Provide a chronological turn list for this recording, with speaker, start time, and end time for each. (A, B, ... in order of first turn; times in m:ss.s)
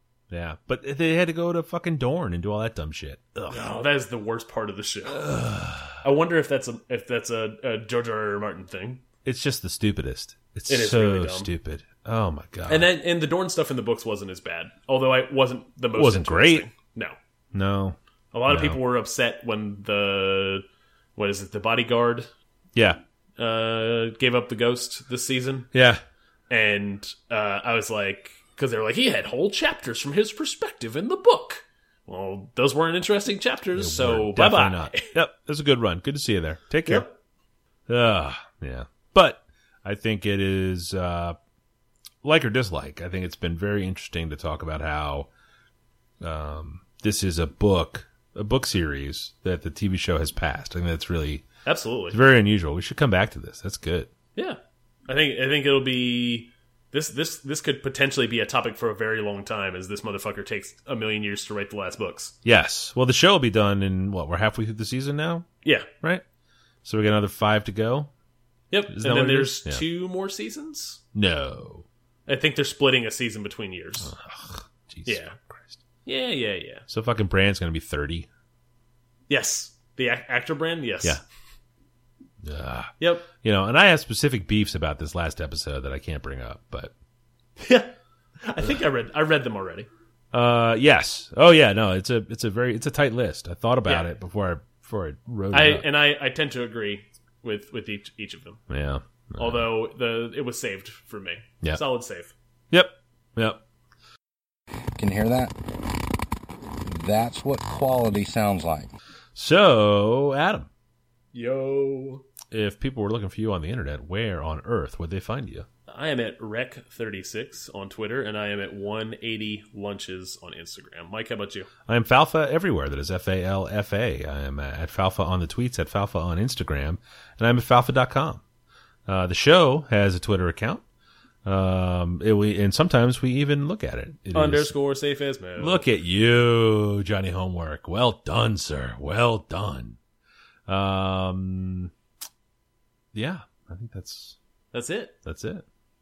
0:00.3-0:03.7 A
0:03.5-0:05.2 B
0:05.1-0:06.0 A
0:06.0-0:09.0 B
0:09.2-0:12.9 A
0:10.7-0:11.5 B
0:12.7-0:17.2 B
0:15.9-0:16.7 A
0:17.5-0:18.0 A
0:18.3-0:20.6 B
0:18.5-0:18.8 A
0:21.2-0:22.3 B
0:23.4-0:25.7 B
0:25.7-0:26.0 A
0:26.5-0:35.1 B
0:33.7-0:37.1 A
0:37.9-0:41.4 A
0:42.2-0:45.3 A
0:46.2-0:51.5 A
0:51.6-0:52.2 B
0:52.1-0:54.1 A
0:54.3-1:02.4 B
1:02.4-1:05.5 A
1:05.6-1:05.9 B
1:06.8-1:08.1 A
1:08.7-1:11.0 B
1:08.9-1:09.8 A
1:11.1-1:11.8 A
1:12.3-1:14.2 B
1:14.0-1:15.8 A
1:15.0-1:15.4 B
1:16.0-1:16.8 B
1:16.9-1:18.3 A
1:19.3-1:21.2 B
1:22.4-1:26.9 A
1:23.0-1:23.3 B
1:27.6-1:29.9 B
1:30.3-1:35.8 A
1:35.5-1:38.7 B
1:38.7-1:39.7 A
1:39.4-1:42.3 B
1:42.7-1:43.6 A
1:45.0-1:45.9 C
1:46.8-1:48.9 C
1:49.4-1:50.7 A
1:51.3-1:52.3 B
1:52.5-1:55.6 A
1:55.9-2:01.7 B
2:01.9-2:08.4 A
2:09.1-2:10.8 A
2:11.4-2:14.7 A
2:14.3-2:15.8 B
2:15.6-2:20.0 A
2:20.7-2:21.9 A
2:23.1-2:24.4 A
2:24.7-2:25.1 B
2:25.2-2:25.6 A